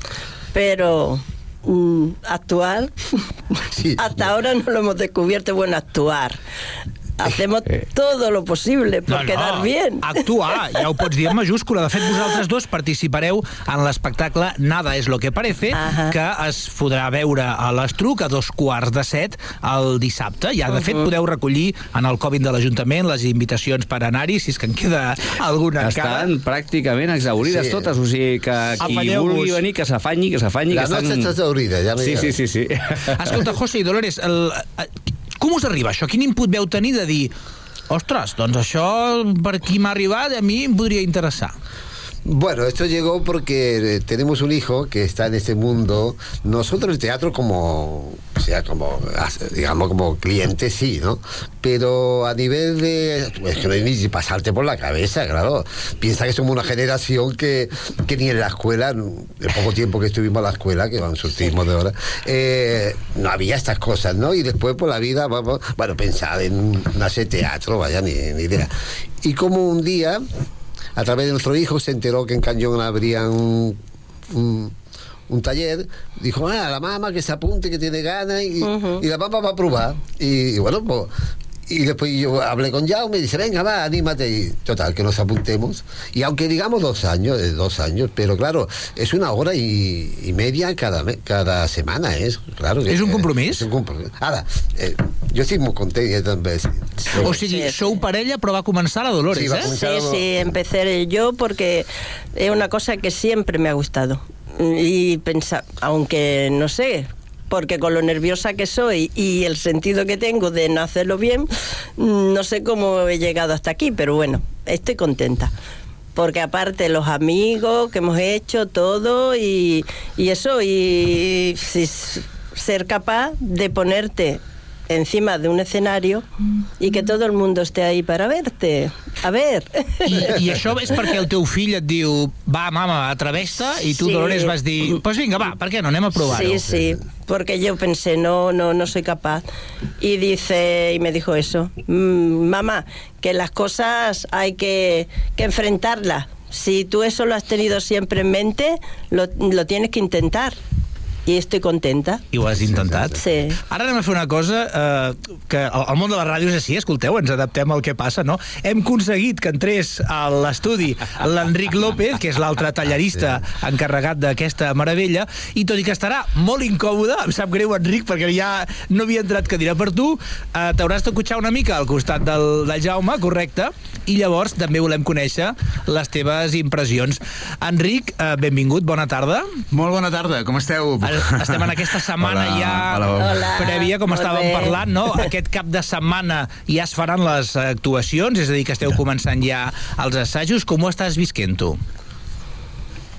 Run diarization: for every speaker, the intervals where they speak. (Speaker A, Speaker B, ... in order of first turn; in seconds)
Speaker A: 0.5-3.0, 4.0-6.4, 7.2-10.2, 15.7-16.1, 78.6-79.0, 97.1-97.9, 99.8-115.5, 116.1-126.2, 126.8-130.3, 133.9-134.5, 136.2-139.4, 140.0-150.6, 151.2-152.2, 153.2-153.6, 183.2-184.8
Speaker B: 3.7-4.2, 27.4-27.9, 30.7-32.4, 42.2-70.2, 71.0-73.8, 74.3-74.7, 75.3-81.1, 81.7-97.4, 99.3-100.5, 136.5-136.8, 152.6-153.1
Speaker C: 9.1-26.3, 28.8-29.6, 33.1-37.3, 37.9-41.5, 92.9-93.7, 97.2-99.7, 130.0-136.7, 152.3-153.2, 153.7-179.5, 181.0-191.8
Speaker D: 25.8-31.3, 32.0-33.4
Speaker E: 179.7-183.4